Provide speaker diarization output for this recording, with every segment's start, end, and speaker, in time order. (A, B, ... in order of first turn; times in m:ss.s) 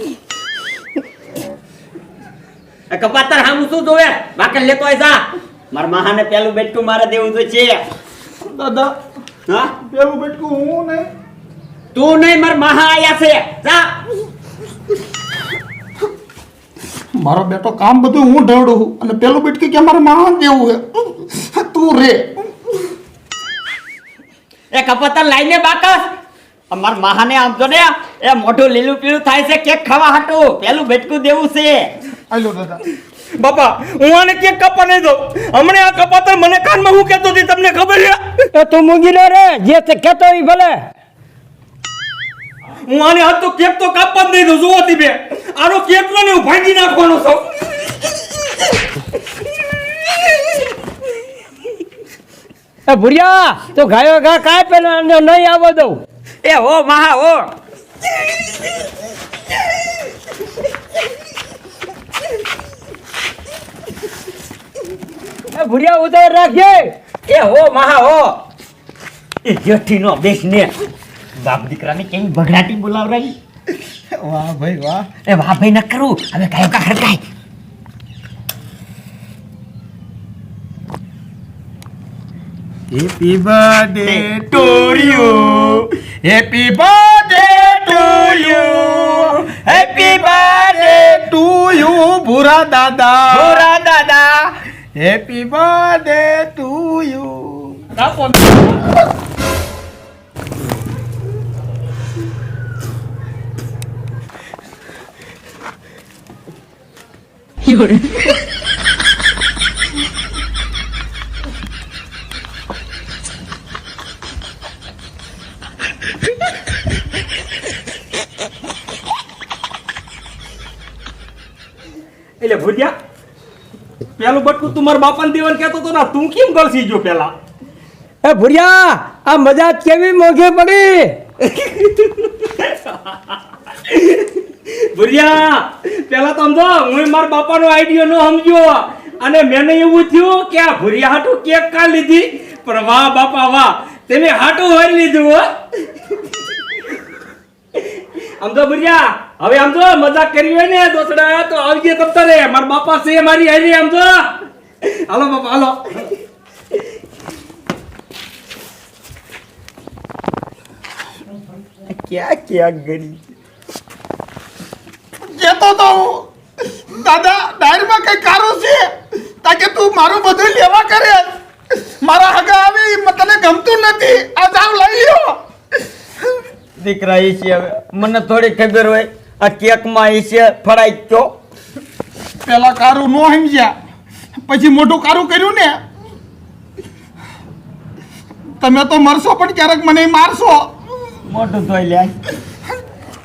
0:02.9-0:07.8 A
0:08.5-0:08.9 B
0:09.5-0:09.8 A
0:09.8-0:11.1 B
0:12.0-0:14.0 A
0:17.2-0:22.5 B
0:24.7-0:26.1 A
0:26.7-0:31.9 A
0:32.3-0:32.8 B
0:33.4-0:38.3 C
0:38.5-0:40.9 D
0:42.9-0:47.5 C
0:52.9-0:56.0 D
0:56.4-0:57.5 A
1:05.5-1:06.9 D
1:07.3-1:08.4 A
1:09.4-1:10.7 A
1:11.4-1:13.4 A
1:14.1-1:15.1 B
1:15.1-1:17.2 A
1:22.9-1:25.5 B
1:24.0-1:25.9 A
1:26.2-1:33.7 B
1:27.3-1:31.3 A
1:33.3-1:34.5 A
1:35.0-1:37.5 B
1:38.0-1:38.6 B
1:47.7-1:48.0 D
2:02.4-2:03.0 C
2:04.2-2:07.3 C
2:08.2-2:11.2 D
2:11.4-2:13.2 C
2:13.9-2:25.5 C
2:28.4-2:36.1 C
2:41.9-2:43.2 A
2:45.3-2:46.3 B
2:46.9-2:48.9 B
2:49.4-2:51.3 B
2:52.0-2:55.4 B
2:56.8-3:01.3 A
3:02.4-3:03.7 B
3:04.5-3:05.8 B
3:08.6-3:10.7 B
3:11.3-3:12.1 A